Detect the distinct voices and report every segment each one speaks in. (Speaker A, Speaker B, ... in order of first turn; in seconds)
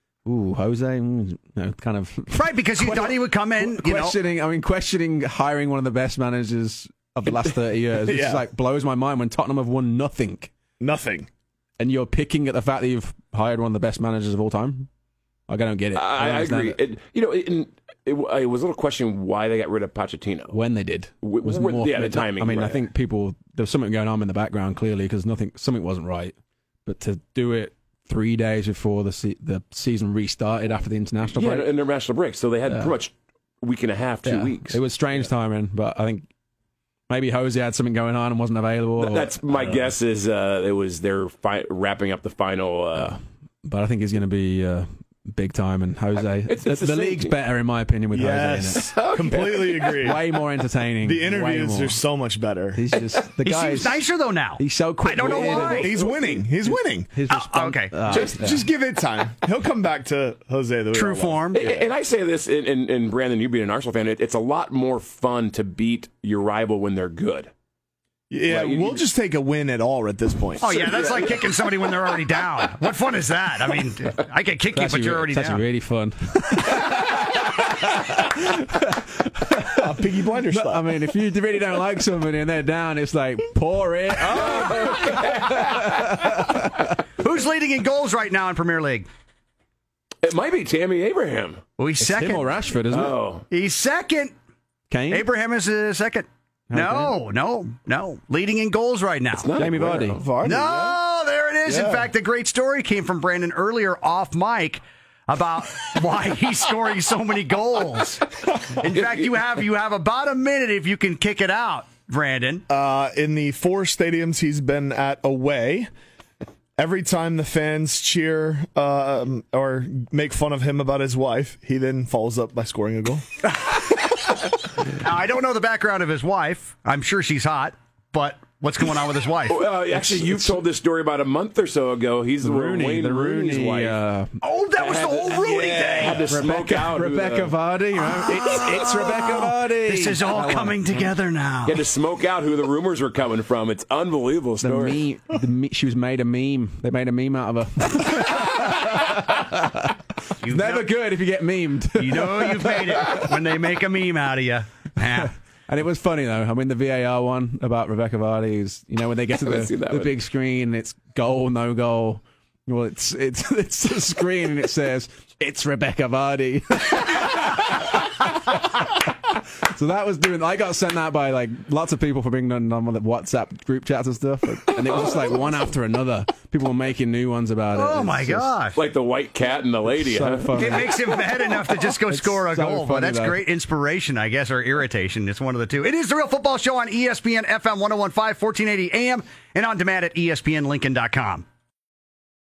Speaker A: 0.2-10.5, 11.8-14.9, 15.5-16.8, 20.5-26.4, 26.9-31.7, 32.6-33.0, 34.2-36.3, 37.1-39.9, 43.0-49.0, 50.0-52.0, 52.7-54.0, 54.6-56.0, 56.6-58.7, 74.7-87.0, 92.0-93.2, 94.9-95.3, 96.7-97.2, 99.6-100.2, 129.9-130.6, 132.4-134.3, 136.3-141.1, 144.6-153.3, 155.2-178.5, 179.9-181.1, 181.9-183.4
Speaker B: 2.3-4.2, 53.4-55.9, 57.3-58.0, 60.9-61.6, 70.6-75.6, 87.2-89.1, 91.8-92.5, 93.5-94.3, 95.1-99.5, 100.4-112.7, 125.0-129.6, 134.4-136.2, 138.3-141.8, 150.4-150.9, 152.0-155.3, 177.8-178.8, 180.6-191.4
Speaker C: 8.1-8.4, 10.8-11.3, 48.1-50.2, 51.0-52.8, 55.4-57.1, 58.1-61.9, 68.3-71.1, 79.8-80.9, 100.0-101.0, 101.7-102.1, 112.7-115.9, 116.8-123.2, 135.4-136.3
Speaker D: 15.9-20.6, 21.2-22.8, 31.3-34.8, 39.0-43.2, 46.5-47.4, 48.8-50.2, 55.3-56.4, 58.1-58.4, 61.5-67.5, 68.5-69.0, 70.7-71.6, 84.2-86.5, 90.2-91.6, 92.9-93.5, 99.4-100.3, 129.5-134.0, 134.8-137.5, 141.7-145.0, 159.4-160.1, 174.9-175.3, 178.8-180.7